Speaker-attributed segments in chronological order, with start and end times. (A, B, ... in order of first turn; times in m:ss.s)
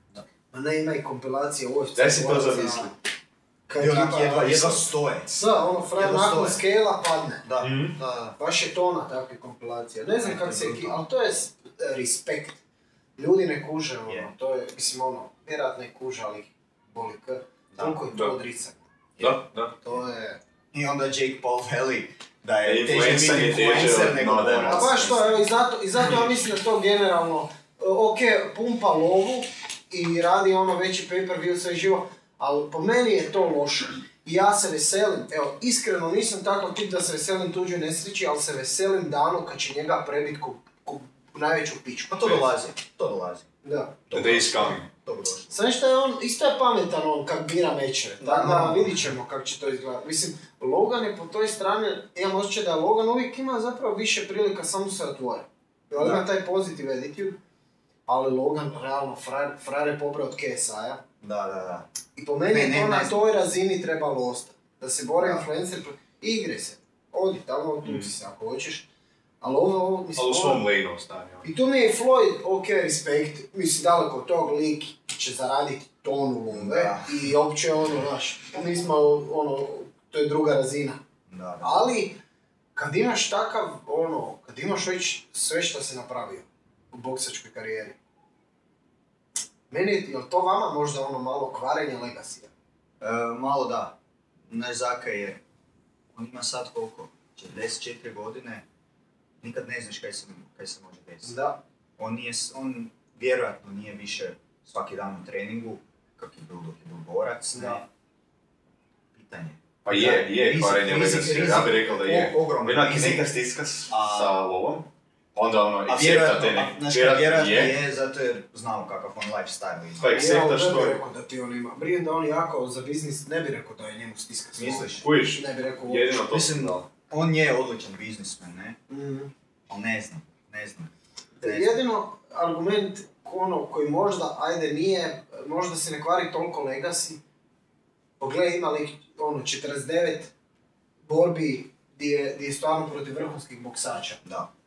0:00.5-0:02.9 A
0:02.0-0:02.9 B
0:03.7-0:07.4 A
0:03.8-0:05.4 C
0:05.9-0:06.6 C
0:07.4-0:07.8 C
0:07.6-0:08.0 B
0:08.0-0:12.6 A
0:10.2-0:11.0 C
0:13.2-0:18.8 A
0:14.0-0:14.3 C
0:19.2-0:19.4 C
0:19.2-0:19.7 B
0:19.8-0:20.4 A
0:20.7-0:25.5 C
0:22.6-0:24.9 B
0:24.7-0:42.2 A
0:42.1-0:43.5 C
0:42.2-0:42.5 B
0:43.6-0:44.0 A
0:44.1-0:45.6 C
0:44.1-0:44.9 B
0:45.5-0:57.4 A
0:48.2-0:49.0 C
0:55.9-0:56.2 C
0:58.1-1:01.0 A
1:01.2-1:01.9 C
1:02.2-1:08.8 A
1:02.5-1:03.2 C
1:05.2-1:05.5 C
1:07.8-1:08.1 B
1:09.4-1:10.7 A
1:10.2-1:11.5 B
1:11.4-1:21.0 A
1:16.5-1:17.2 C
1:21.3-1:21.7 C
1:21.6-1:22.2 A
1:22.7-1:28.0 A
1:29.7-1:32.5 A
1:33.0-1:34.0 C
1:34.5-1:35.4 C
1:36.1-1:38.6 C
1:39.4-1:41.4 C
1:41.2-1:41.6 A
1:42.0-1:47.8 C
1:47.5-1:47.8 A
1:49.1-1:53.2 C
1:49.8-1:57.8 B
1:53.9-1:54.4 C
1:55.9-2:00.2 C
2:00.0-2:01.0 B
2:00.1-2:06.2 A
2:04.5-2:05.0 C
2:05.0-2:06.8 B
2:06.3-2:08.8 C
2:08.9-2:09.3 A
2:09.7-2:10.9 C
2:11.4-2:17.2 A
2:11.4-2:11.8 C
2:18.2-2:20.3 A
2:21.0-2:24.2 A
2:24.2-2:24.5 C